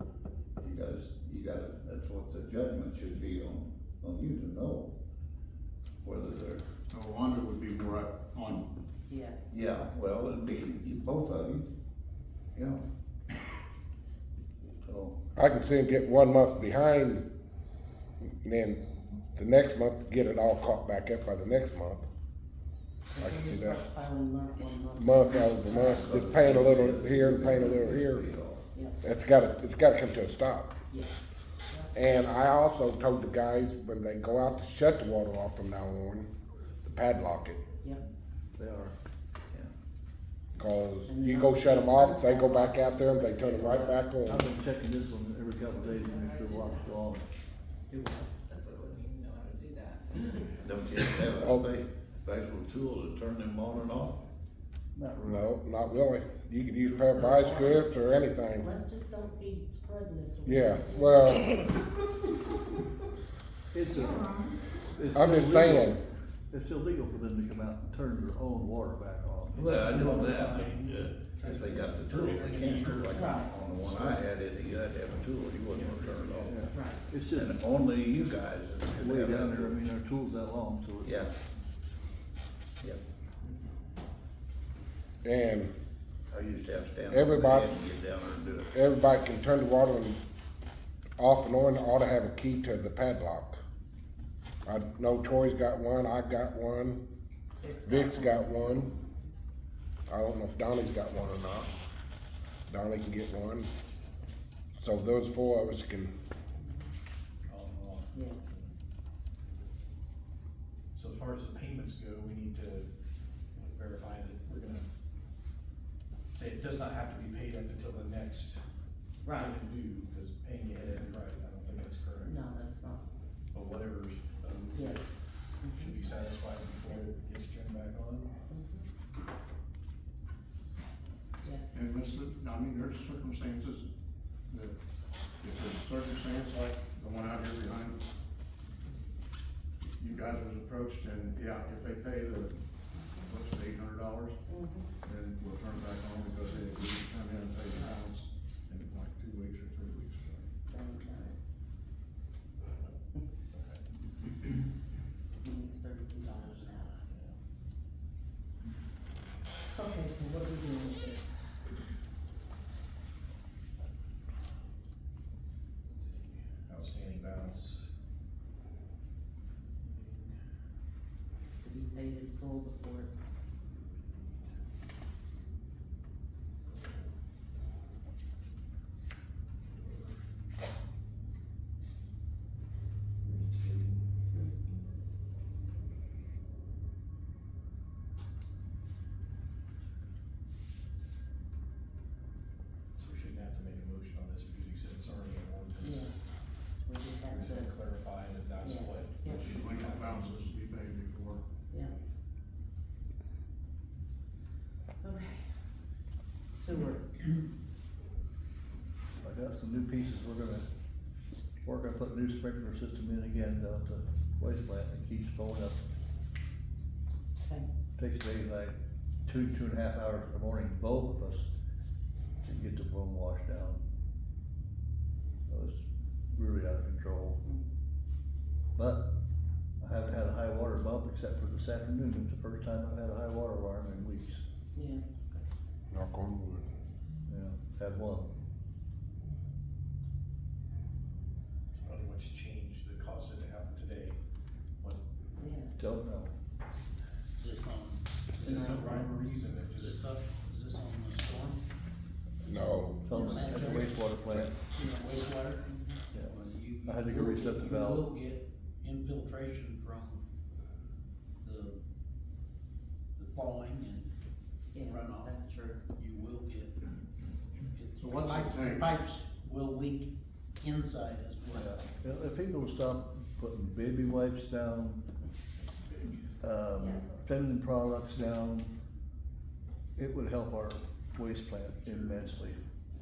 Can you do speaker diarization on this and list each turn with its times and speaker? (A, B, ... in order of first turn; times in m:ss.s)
0:00.6-0:04.9 A
0:06.0-0:06.6 A
0:06.9-0:08.7 B
0:09.1-0:09.4 C
0:09.5-0:11.7 A
0:12.6-0:12.8 A
0:14.9-0:15.2 A
0:15.4-0:17.2 D
0:18.4-0:18.8 D
0:19.4-0:22.1 D
0:23.2-0:26.2 C
0:23.2-0:23.9 D
0:25.0-0:28.3 D
0:25.7-0:28.6 A
0:28.7-0:29.0 C
0:29.0-0:30.7 D
0:30.9-0:31.2 C
0:31.9-0:36.3 D
0:36.8-0:37.6 D
0:38.6-0:39.0 E
0:40.6-0:44.5 D
0:41.1-0:44.0 C
0:44.2-0:47.3 E
0:46.0-0:46.7 F
0:47.9-0:48.3 C
0:48.5-0:50.5 F
0:50.6-0:54.2 A
0:51.4-0:51.7 D
0:55.0-0:55.5 E
0:55.2-0:58.7 D
0:57.0-0:57.9 C
0:58.6-1:01.6 C
1:00.5-1:01.6 D
1:03.7-1:09.9 E
1:05.1-1:06.0 D
1:09.6-1:16.6 A
1:09.6-1:13.1 G
1:12.1-1:13.1 H
1:13.1-1:13.5 C
1:15.7-1:16.6 G
1:16.5-1:17.6 E
1:16.7-1:17.0 C
1:17.3-1:19.8 A
1:19.0-1:21.2 E
1:21.0-1:21.3 A
1:25.2-1:25.7 D
1:26.3-1:28.7 A
1:27.1-1:27.7 D
1:28.7-1:30.2 D
1:31.2-1:33.6 D
1:34.6-1:37.0 D
1:37.6-1:38.8 C
1:37.8-1:38.9 D
1:40.1-1:41.7 D
1:42.7-1:43.7 D
1:44.8-1:46.1 D
1:46.6-1:46.9 C
1:47.5-1:48.7 G
1:48.1-1:48.4 C
1:50.9-1:52.9 G
1:53.5-1:54.8 G
1:56.3-1:58.6 G
1:59.2-1:59.6 C
1:59.4-2:02.4 G
2:02.2-2:03.0 C
2:03.5-2:05.1 G
2:04.7-2:06.0 C
2:05.7-2:08.3 G
2:08.5-2:08.9 C
2:11.7-2:13.9 B
2:14.5-2:14.8 B
2:15.4-2:18.0 B
2:20.0-2:22.6 B
2:23.2-2:24.4 B
2:24.5-2:24.9 C
2:25.0-2:30.5 B
2:30.7-2:31.4 C
2:33.5-2:33.8 G
2:35.4-2:36.9 C
2:36.2-2:37.4 G
2:39.7-2:41.3 C
2:45.9-2:47.9 G
2:49.8-2:50.4 G
2:51.6-2:53.1 C
2:59.7-3:00.2 G
3:03.2-3:04.2 G
3:13.0-3:16.1 G
3:15.8-3:16.1 C
3:16.8-3:17.8 C
3:17.2-3:20.6 G
3:18.6-3:19.4 C
3:19.4-3:21.4 B
3:25.0-3:25.4 C
3:26.5-3:27.2 C
3:29.2-3:30.7 E
3:31.6-3:35.8 E
3:37.4-3:37.7 C
3:38.0-3:41.5 E
3:42.4-3:43.8 E
3:45.5-3:47.4 E
3:48.8-3:49.1 E
3:49.8-3:54.4 E
3:54.7-3:55.4 C
3:55.9-3:56.7 D
3:57.3-3:58.3 E
4:01.7-4:04.2 G
4:05.4-4:05.7 C
4:05.8-4:06.3 E
4:07.4-4:09.2 H
4:08.4-4:10.1 G
4:08.5-4:09.1 C
4:09.8-4:11.6 H
4:12.5-4:13.1 D
4:13.0-4:14.6 E
4:13.1-4:13.6 C
4:13.1-4:14.0 H
4:14.7-4:15.6 H
4:14.8-4:16.0 C
4:16.1-4:18.1 E
4:16.2-4:20.2 H
4:21.4-4:21.8 H
4:23.2-4:24.1 H
4:24.7-4:25.8 C
4:24.8-4:25.4 H
4:25.9-4:26.7 H
4:27.7-4:31.8 H
4:28.0-4:29.0 B
4:31.5-4:35.0 E
4:35.8-4:36.2 H
4:36.4-4:38.7 E
4:36.8-4:37.1 C
4:40.0-4:42.6 E
4:41.9-4:42.2 H